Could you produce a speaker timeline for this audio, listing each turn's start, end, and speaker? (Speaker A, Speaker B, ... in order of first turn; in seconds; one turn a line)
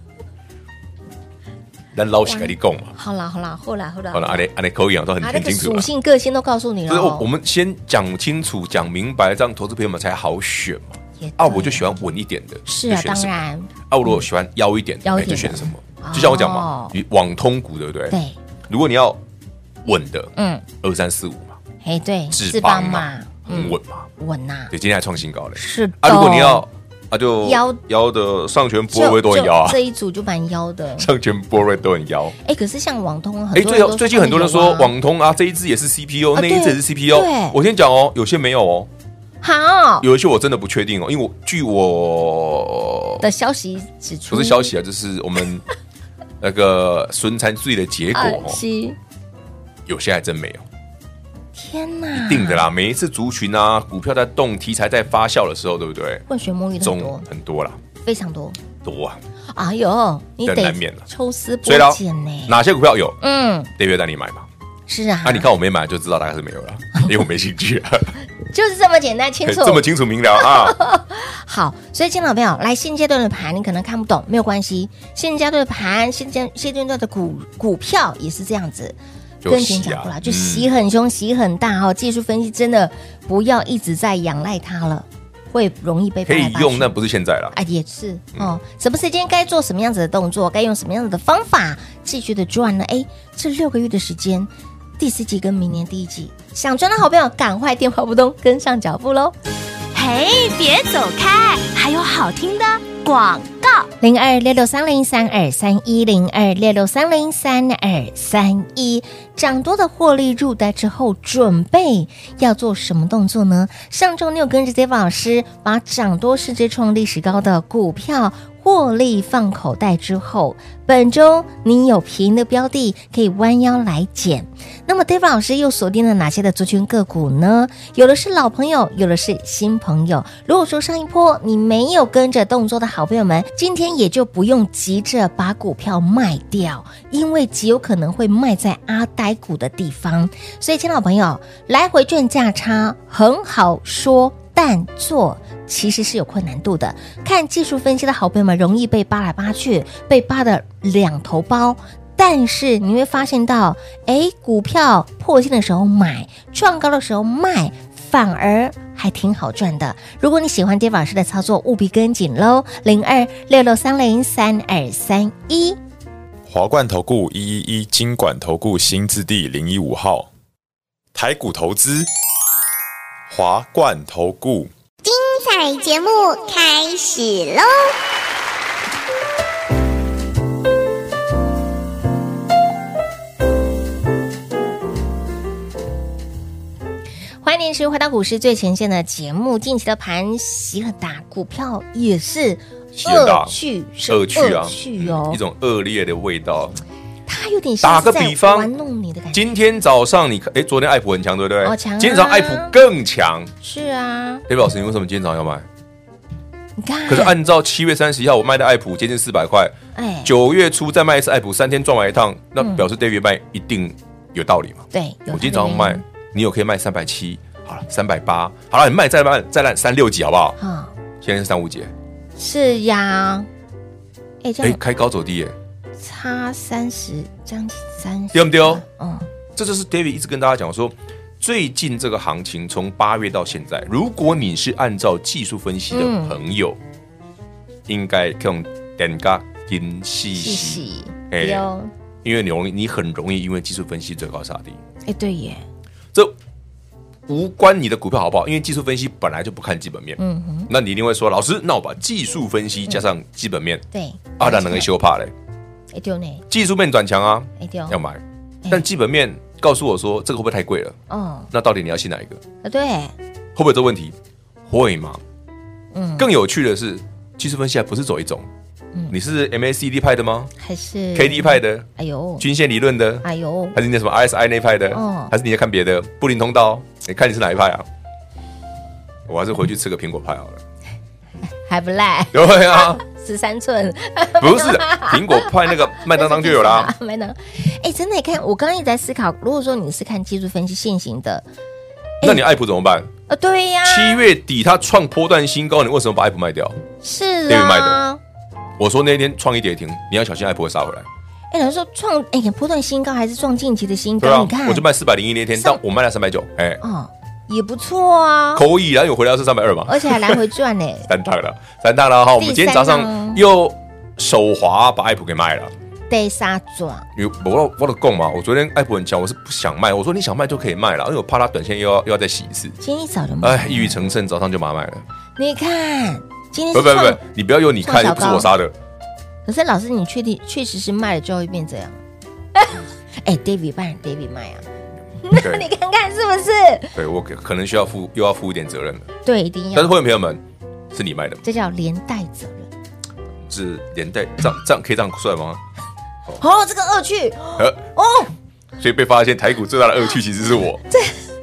Speaker A: 1.9-3.0
Speaker B: 2.2-4.5
Speaker A: 4.1-5.9
Speaker B: 5.2-7.3
Speaker A: 6.9-13.4
Speaker B: 11.2-11.9
Speaker B: 12.7-13.7
Speaker A: 13.9-19.2
Speaker B: 15.1-16.9
Speaker B: 18.1-18.4
Speaker A: 19.8-21.6
Speaker B: 20.4-20.6
Speaker B: 21.8-24.7
Speaker A: 22.3-24.1
Speaker A: 24.7-29.8
Speaker B: 25.6-26.6
Speaker B: 27.4-27.8
Speaker B: 28.9-31.1
Speaker A: 31.0-32.4
Speaker B: 32.4-34.9
Speaker A: 33.5-38.9
Speaker B: 36.4-37.6
Speaker B: 39.4-40.1
Speaker A: 40.0-43.2
Speaker B: 43.2-44.7
Speaker A: 44.3-45.6
Speaker A: 46.4-48.6
Speaker B: 48.1-49.0
Speaker A: 49.9-50.6
Speaker B: 51.5-52.7
Speaker A: 52.1-56.2
Speaker B: 56.3-57.2
Speaker A: 56.8-57.8
Speaker B: 58.0-58.6
Speaker A: 58.8-59.2
Speaker B: 59.5-62.6
Speaker A: 60.4-61.1
Speaker A: 61.6-63.2
Speaker B: 63.2-63.7
Speaker A: 63.8-64.5
Speaker B: 64.9-65.5
Speaker A: 65.2-68.2
Speaker B: 68.5-86.9
Speaker A: 69.5-70.8
Speaker A: 79.4-80.7
Speaker A: 86.3-87.6
Speaker B: 87.5-99.4
Speaker C: 99.9-103.9
Speaker B: 104.0-165.8
Speaker D: 166.5-170.3
Speaker D: 171.1-172.1
Speaker D: 173.3-174.7
Speaker E: 175.0-178.0
Speaker B: 187.4-195.4
Speaker A: 192.9-193.5
Speaker A: 194.1-196.8
Speaker B: 197.3-199.5
Speaker A: 197.8-198.7
Speaker A: 199.3-203.5
Speaker B: 201.6-202.8
Speaker B: 203.6-204.4
Speaker A: 204.5-205.7
Speaker B: 206.8-207.4
Speaker A: 207.1-220.6
Speaker B: 210.0-210.3
Speaker B: 214.9-216.0
Speaker B: 220.6-220.9
Speaker A: 221.2-221.9
Speaker B: 222.4-223.5
Speaker B: 224.4-224.8
Speaker A: 224.6-225.6
Speaker B: 226.0-229.3
Speaker A: 228.3-228.8
Speaker A: 229.6-236.8
Speaker B: 235.9-236.4
Speaker A: 237.9-241.7
Speaker B: 240.3-241.9
Speaker A: 242.2-244.8
Speaker B: 245.1-245.6
Speaker A: 247.3-253.8
Speaker B: 250.2-250.7
Speaker B: 253.9-254.9
Speaker A: 254.4-255.3
Speaker B: 255.9-256.4
Speaker A: 256.5-261.0
Speaker B: 257.6-258.0
Speaker B: 261.1-261.5
Speaker A: 261.5-262.4
Speaker B: 262.6-263.1
Speaker A: 263.6-264.1
Speaker A: 264.7-265.2
Speaker B: 265.9-266.3
Speaker A: 266.2-268.5
Speaker A: 269.1-270.5
Speaker B: 270.6-272.4
Speaker A: 271.1-271.9
Speaker A: 272.4-277.9
Speaker B: 273.2-273.8
Speaker B: 274.9-275.3
Speaker A: 279.3-280.6
Speaker B: 281.5-291.5
Speaker A: 282.3-283.0
Speaker A: 284.4-286.9
Speaker A: 292.2-293.1
Speaker B: 293.3-294.2
Speaker A: 293.8-296.8
Speaker B: 297.0-298.2
Speaker A: 297.5-298.0
Speaker A: 298.8-301.1
Speaker B: 301.5-304.9
Speaker A: 304.2-306.8
Speaker B: 306.8-308.6
Speaker A: 308.5-310.4
Speaker B: 309.9-311.1
Speaker A: 311.1-315.7
Speaker B: 312.4-313.4
Speaker B: 316.1-317.1
Speaker A: 317.1-322.8
Speaker B: 322.8-324.0
Speaker A: 323.4-325.0
Speaker B: 325.4-327.2
Speaker A: 326.7-328.7
Speaker B: 327.8-328.5
Speaker B: 329.5-332.0
Speaker B: 332.6-334.6
Speaker B: 335.2-337.0
Speaker A: 335.4-335.7
Speaker A: 337.0-339.1
Speaker B: 339.2-340.0
Speaker A: 339.7-341.4
Speaker B: 341.4-342.7
Speaker A: 343.5-345.6
Speaker B: 346.4-348.3
Speaker A: 348.8-350.8
Speaker B: 350.9-351.2